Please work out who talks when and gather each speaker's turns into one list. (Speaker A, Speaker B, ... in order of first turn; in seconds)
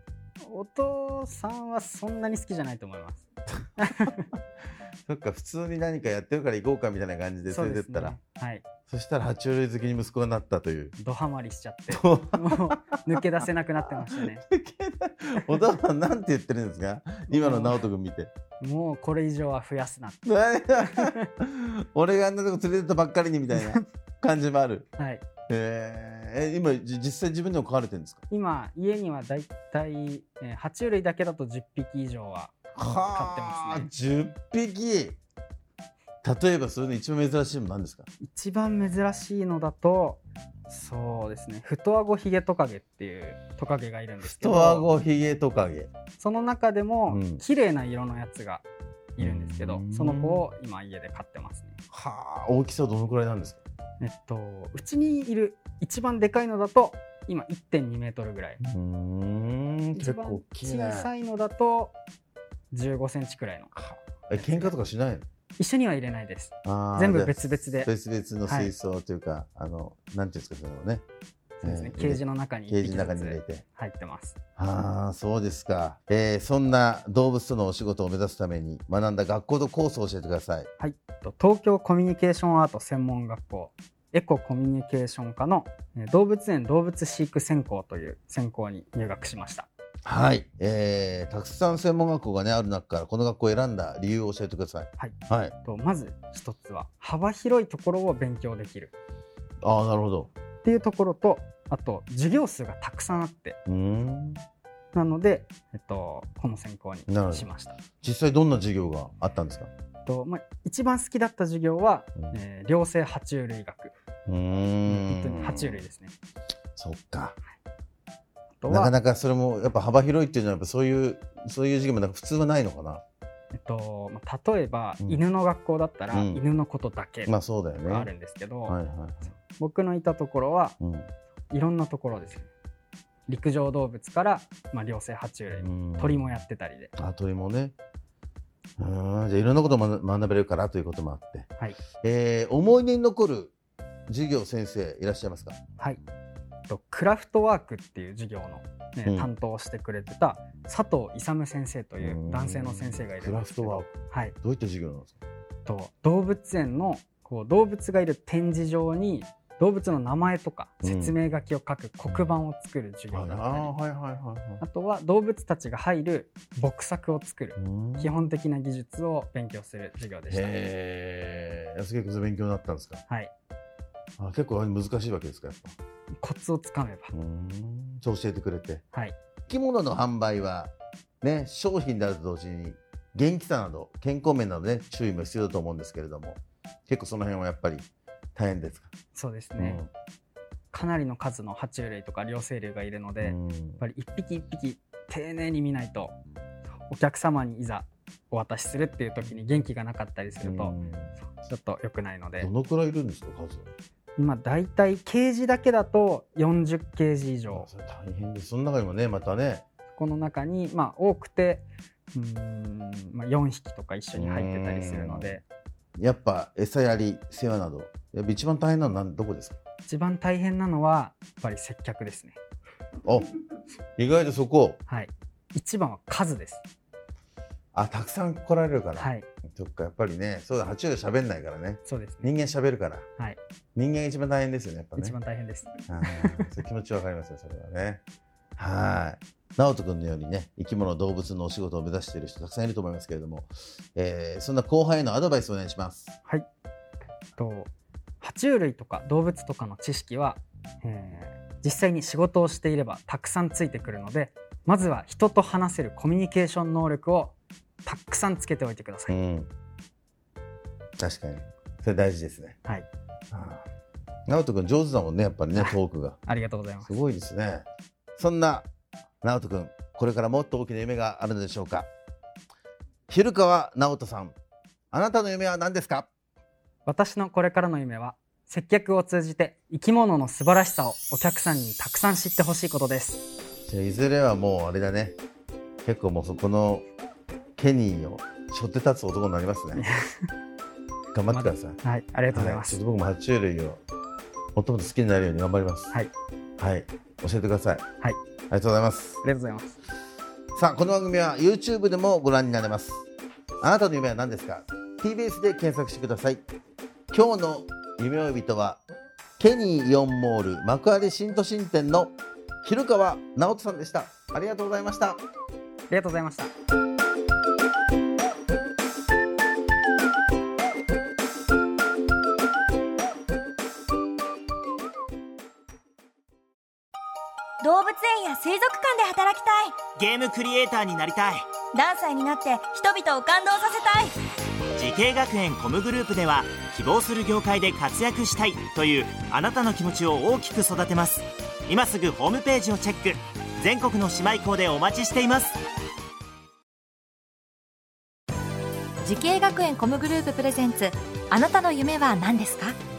Speaker A: 0.4-3.2, 3.8-4.2, 7.5-8.6, 11.0-14.4, 17.3-17.8, 18.6-20.2, 20.8-21.3, 23.5-23.8, 25.0-25.2, 28.3-33.9, 38.2-44.9, 46.2-48.6, 49.2-51.8, 54.0-58.6, 60.0-61.9, 62.7-63.7, 64.4-64.7, 65.6-67.9, 68.5-68.7, 71.6-74.4, 80.8-89.7, 95.0-98.9, 100.6-103.6, 104.9-107.8, 110.0-113.9, 114.8-116.1, 118.6-118.9, 123.5-128.8, 129.4-130.7, 131.5-132.5, 133.3-136.9, 146.7-154.3, 155.6-163.7, 164.6-170.5, 176.2-177.1, 189.1-189.8, 190.7-196.2, 196.9-202.5, 204.2-207.7, 209.9-215.4, 219.8-222.4, 224.9-226.6, 229.0-229.2, 231.8-232.3, 235.0-236.5, 247.4-247.7, 248.2-257.3, 257.8-259.1, 265.6-267.0, 276.9-283.2, 289.7-290.3, 291.3-292.8, 299.2-299.8, 315.9-316.5
Speaker B: 5.0-8.2, 8.9-10.9, 11.9-13.1, 14.0-18.3, 20.2-24.9, 25.5-28.2, 32.8-35.2, 36.2-38.1, 44.2-45.9, 47.1-47.4, 49.2-50.5, 51.9-53.6, 58.6-61.1, 63.7-65.2, 66.6-71.0, 71.6-73.6, 74.6-80.7, 90.0-95.5, 99.6-100.3, 103.7-104.4, 107.1-107.5, 108.0-109.7, 114.3-115.8, 116.8-117.4, 118.7-123.0, 126.1-126.4, 127.2-128.1, 128.7-129.3, 130.8-131.1, 135.6-136.2, 137.0-137.7, 138.8-141.5, 142.0-143.5, 144.1-145.6, 149.0-149.3, 152.0-155.2, 160.8-161.2, 163.1-164.6, 167.6-168.1, 170.3-173.0, 174.2-175.7, 177.1-178.8, 179.5-188.9, 189.6-189.9, 193.2-193.8, 200.4-201.1, 202.4-203.7, 207.5-209.6, 214.1-215.4, 216.0-219.6, 224.0-224.8, 227.7-233.0, 233.8-235.2, 235.9-238.0, 238.6-246.1, 259.1-259.5, 261.0-262.6, 263.3-263.6, 264.3-266.2, 266.9-267.6, 268.2-268.7, 269.2-271.9, 273.1-274.3, 274.9-276.1, 283.7-285.1, 285.8-286.9, 287.6-289.8, 291.1-291.8, 292.3-293.8, 294.6-295.9, 296.6-297.8, 298.5-299.2, 300.5-303.1, 303.6-306.4, 307.1-308.8, 309.4-315.2
Speaker C: 327.6-329.9, 331.7-334.1
Speaker D: 329.9-331.5, 334.8-345.5
Speaker E: 349.0-352.8